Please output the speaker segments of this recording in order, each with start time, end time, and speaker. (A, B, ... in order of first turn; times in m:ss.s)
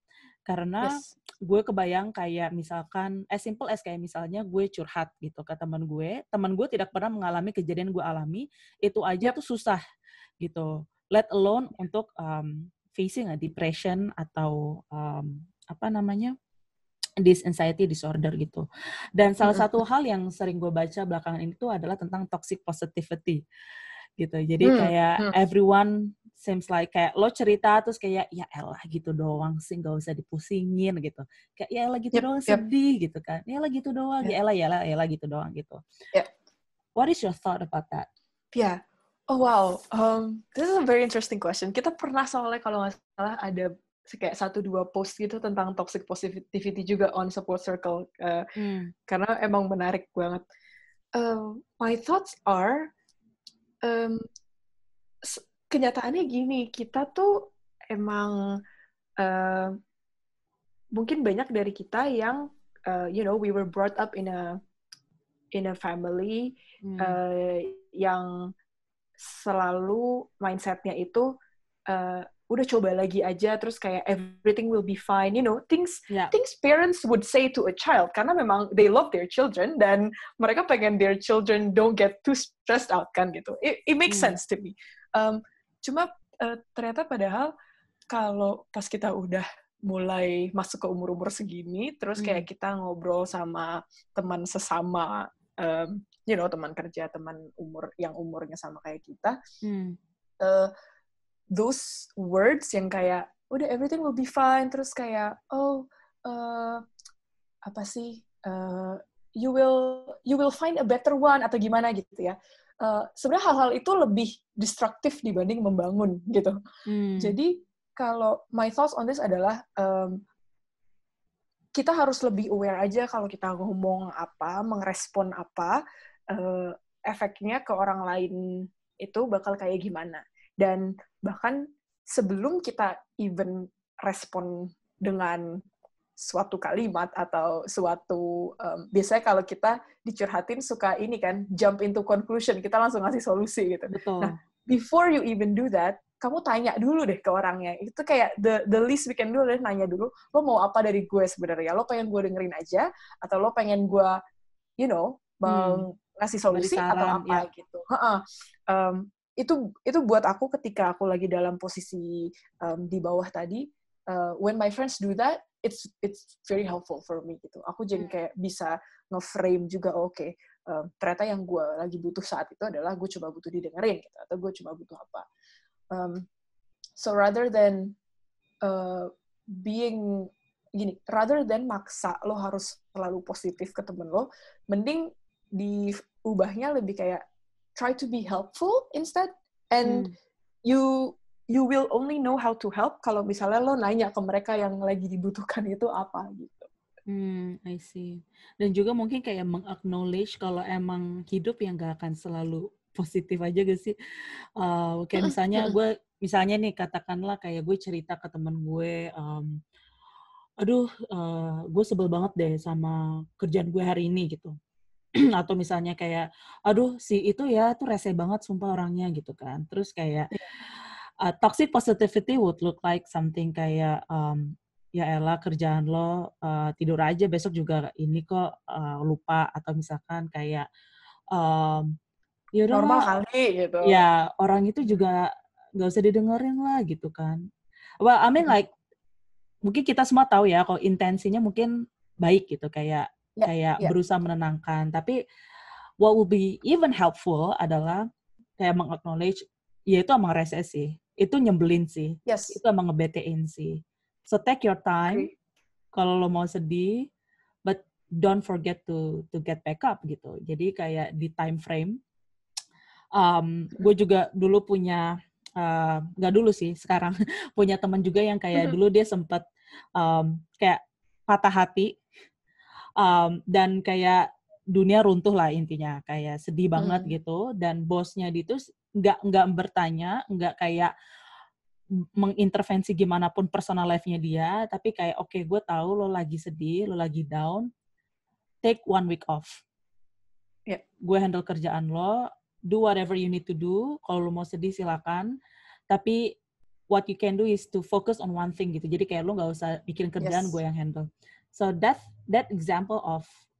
0:00.5-0:09.8 A
0:00.8-0:01.1 B
0:10.4-0:16.3 A
0:17.2-0:23.4 A
0:19.4-0:19.7 B
0:24.2-0:35.8 A
0:24.6-0:25.3 B
0:32.1-0:32.6 B
0:37.0-0:38.1 A
0:38.5-0:48.4 B
0:48.6-0:48.9 A
0:49.1-0:50.4 B
0:51.1-0:52.9 B
0:53.8-0:54.2 B
0:55.2-0:58.4 B
0:59.2-0:59.7 B
1:00.9-1:04.6 B
1:05.5-1:08.5 B
1:06.8-1:07.2 A
1:09.2-1:11.3 B
1:11.9-1:27.5 B
1:24.1-1:24.4 A
1:28.1-1:39.4 B
1:32.2-1:32.4 A
1:39.6-1:40.0 A
1:40.4-1:40.7 B
1:41.5-1:46.8 B
1:47.6-1:56.5 B
1:56.9-1:57.3 A
1:57.2-2:00.2 B
2:01.7-2:05.8 B
2:06.3-2:08.4 B
2:09.0-2:15.6 B
2:16.2-2:34.1 B
2:23.9-2:24.3 A
2:34.8-2:55.2 B
2:35.5-2:35.8 A
2:36.5-2:37.4 A
2:55.9-2:56.2 B
2:57.0-2:57.9 B
2:58.6-3:07.2 B
3:07.7-3:10.1 B
3:09.8-3:10.1 A
3:10.6-3:16.7 B
3:17.1-3:23.9 A
3:24.6-3:29.6 A
3:25.2-3:25.7 B
3:30.6-3:34.5 A
3:35.2-3:40.3 A
3:41.2-3:50.6 A
3:51.3-3:51.9 A
3:52.5-3:53.1 A
3:52.7-3:54.0 B
3:53.8-3:57.4 A
3:58.0-3:58.7 A
3:59.6-4:01.7 A
4:02.2-4:05.1 A
4:03.4-4:03.9 B
4:06.0-4:08.0 A
4:08.6-4:09.4 A
4:09.9-4:15.3 A
4:12.2-4:12.6 B
4:15.9-4:17.0 A
4:17.6-4:22.0 A
4:23.1-4:25.0 A
4:25.6-4:29.4 A
4:30.0-4:31.9 A
4:33.0-4:40.9 A
4:36.8-4:37.1 B
4:42.2-4:47.7 A
4:48.6-4:49.6 A
4:51.0-4:55.3 A
4:55.9-4:56.4 A
4:56.9-5:03.3 A
5:00.2-5:00.6 B